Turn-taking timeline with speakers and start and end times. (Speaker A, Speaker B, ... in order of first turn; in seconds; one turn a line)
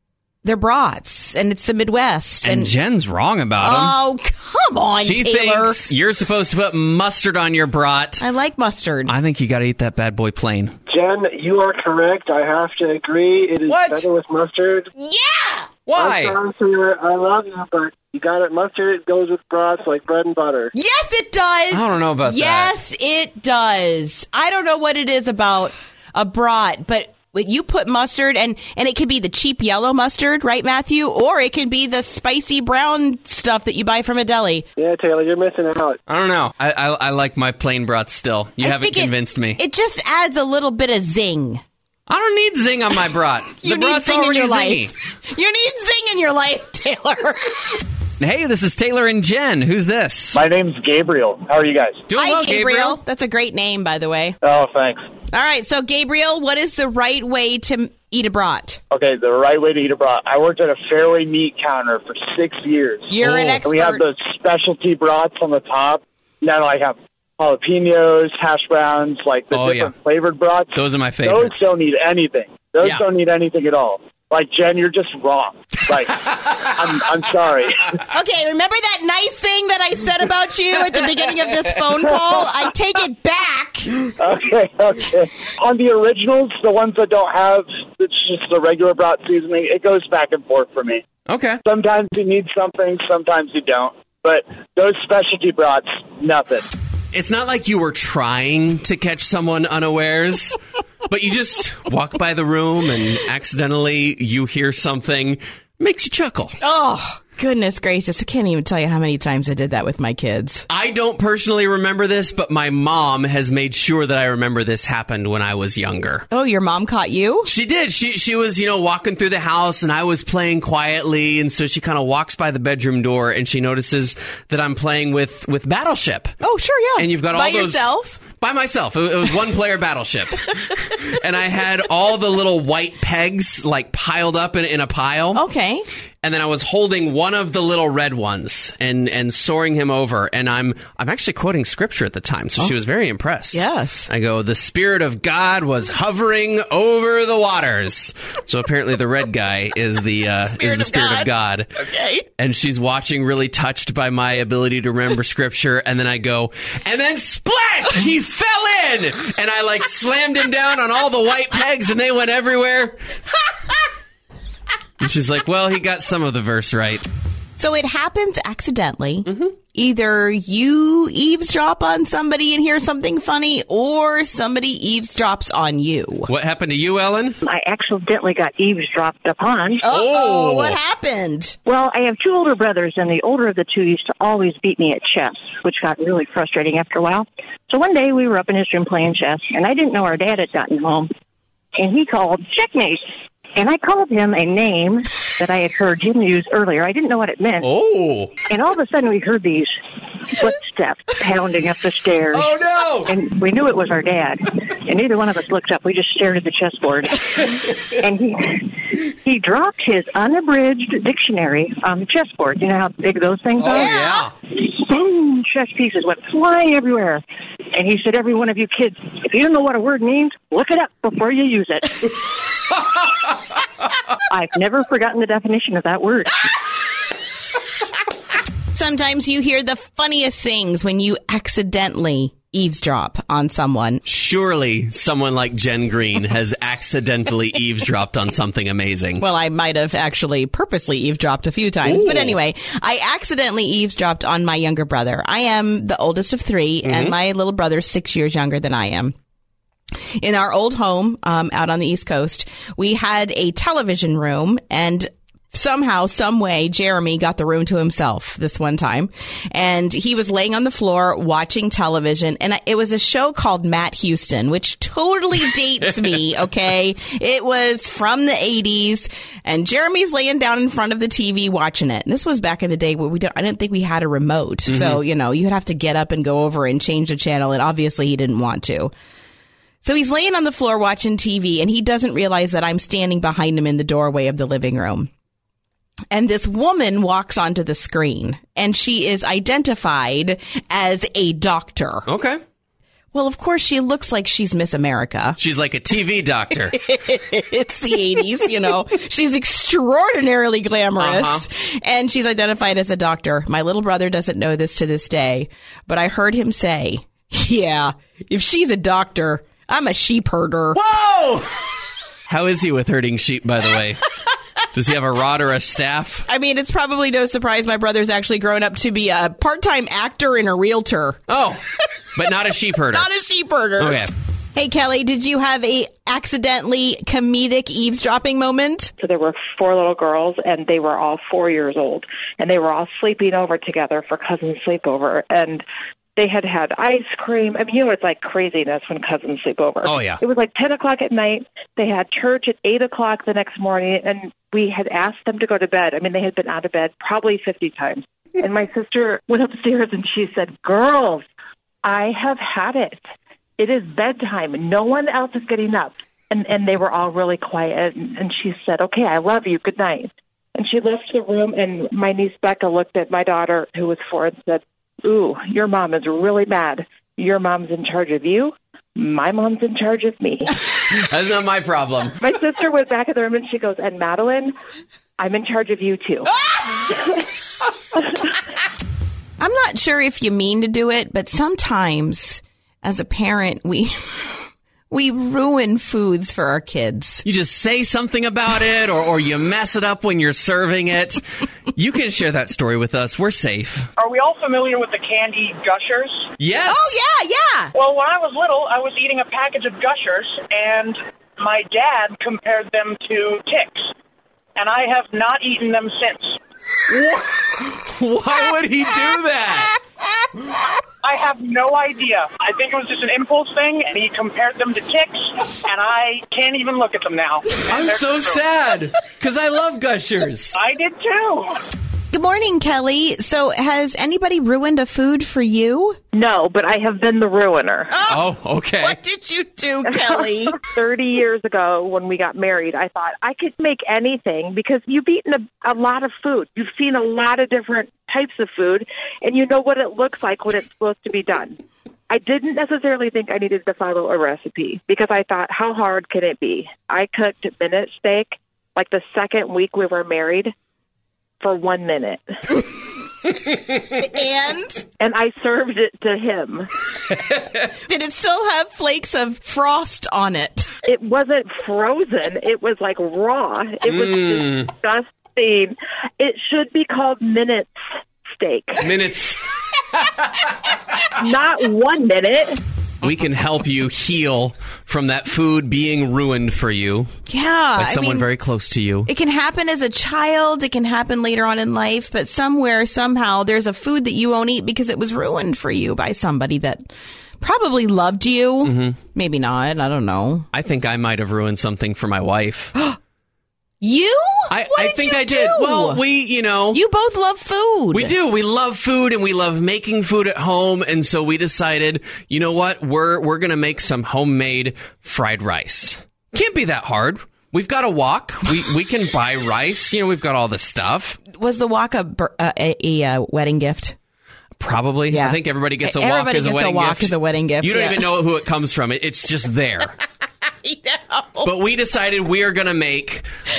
Speaker A: 0.4-2.8
Speaker B: 2.4-4.0
Speaker A: 3.6-5.8
Speaker B: 5.0-8.2
Speaker A: 8.2-9.1
Speaker B: 9.1-10.8
Speaker C: 10.9-14.9
Speaker B: 13.7-14.1
Speaker A: 15.0-15.7
Speaker B: 15.9-16.4
Speaker C: 16.0-20.7
Speaker A: 20.7-34.7
Speaker B: 21.7-22.7
Speaker C: 34.8-36.0
Speaker B: 36.1-39.6
Speaker A: 38.6-41.6
Speaker B: 42.1-44.9
Speaker A: 43.6-47.8
Speaker B: 48.2-50.4
Speaker D: 50.3-52.0
Speaker B: 52.1-53.0
Speaker A: 52.2-54.4
Speaker D: 54.4-55.0
Speaker A: 55.3-58.8
Speaker D: 58.9-77.9
Speaker A: 63.1-64.0
Speaker B: 63.2-63.5
Speaker B: 69.5-69.9
Speaker B: 70.8-71.7
Speaker B: 76.1-76.5
Speaker A: 78.1-83.9
Speaker D: 84.2-91.0
Speaker B: 91.3-91.6
Speaker D: 91.7-96.7
Speaker B: 97.1-100.6
Speaker B: 101.1-106.5
Speaker A: 106.6-110.7
Speaker B: 110.7-116.3
Speaker A: 116.3-117.5
Speaker B: 117.5-126.4
Speaker A: 126.4-128.2
Speaker B: 127.0-135.4
Speaker A: 135.3-135.9
Speaker B: 136.2-151.7
Speaker A: 143.5-144.1
Speaker A: 150.4-152.3
Speaker B: 152.4-163.0
Speaker B: 165.0-167.1
Speaker A: 167.6-176.3
Speaker B: 169.3-169.5
Speaker B: 176.3-177.4
Speaker E: 177.5-179.8
Speaker A: 179.8-181.6
Speaker B: 179.8-180.8
Speaker E: 181.7-191.1
Speaker E: 191.8-193.0
Speaker E: 193.6-197.6
Speaker B: 197.6-198.3
Speaker E: 198.5-199.7
Speaker E: 200.4-202.5
Speaker B: 202.3-203.2
Speaker E: 203.1-204.4
Speaker E: 204.9-207.3
Speaker E: 208.0-208.6
Speaker E: 209.2-214.1
Speaker B: 213.6-214.3
Speaker E: 214.8-217.2
Speaker E: 217.8-222.0
Speaker E: 224.3-226.3
Speaker A: 228.7-234.0
Speaker B: 234.1-239.2
Speaker A: 239.2-249.2
Speaker B: 241.8-242.4
Speaker B: 246.8-247.2
Speaker A: 250.2-278.9
Speaker B: 274.7-275.0
Speaker A: 279.8-285.1
Speaker A: 286.1-292.1
Speaker B: 292.1-292.4
Speaker A: 293.1-295.4
Speaker B: 295.4-296.8
Speaker A: 296.7-310.8
Speaker B: 301.0-301.4
Speaker B: 310.7-311.5
Speaker B: 312.3-314.0
Speaker B: 314.7-316.3
Speaker A: 316.3-321.2
Speaker B: 321.3-321.6
Speaker B: 322.1-323.1
Speaker A: 322.9-324.0
Speaker B: 323.8-324.1
Speaker A: 324.6-328.9
Speaker F: 329.0-335.6
Speaker F: 336.2-351.2
Speaker B: 339.8-340.2
Speaker F: 351.8-353.0
Speaker F: 353.6-370.6
Speaker B: 370.9-372.2
Speaker F: 372.2-374.5
Speaker F: 375.2-376.3
Speaker F: 376.9-377.2
Speaker A: 379.4-387.2
Speaker B: 387.2-391.2
Speaker B: 391.7-393.9
Speaker G: 394.0-396.2
Speaker B: 396.4-396.9
Speaker A: 396.7-397.7
Speaker G: 397.8-403.9
Speaker G: 404.6-406.4
Speaker B: 406.9-409.8
Speaker G: 411.0-418.4
Speaker B: 417.7-420.6
Speaker G: 420.6-421.5
Speaker A: 422.1-426.0
Speaker F: 426.1-427.9
Speaker A: 427.9-428.2
Speaker B: 428.1-429.0
Speaker A: 428.8-430.6
Speaker F: 430.0-441.6
Speaker F: 442.1-450.5
Speaker F: 451.4-452.3
Speaker A: 454.0-454.8
Speaker F: 455.0-456.7
Speaker A: 457.9-460.7
Speaker F: 460.9-467.8
Speaker B: 463.8-464.7
Speaker F: 468.3-468.8
Speaker B: 468.8-469.4
Speaker F: 471.2-472.6
Speaker B: 473.0-477.1
Speaker A: 477.3-478.3
Speaker B: 477.8-479.1
Speaker A: 479.1-486.9
Speaker A: 487.4-490.5
Speaker B: 488.6-489.0
Speaker B: 490.5-492.7
Speaker A: 493.8-496.0
Speaker B: 494.5-496.8
Speaker A: 496.7-498.1
Speaker B: 497.9-511.2
Speaker A: 511.3-514.0
Speaker B: 514.6-520.0
Speaker A: 515.1-518.1
Speaker A: 520.6-521.5
Speaker B: 521.4-523.2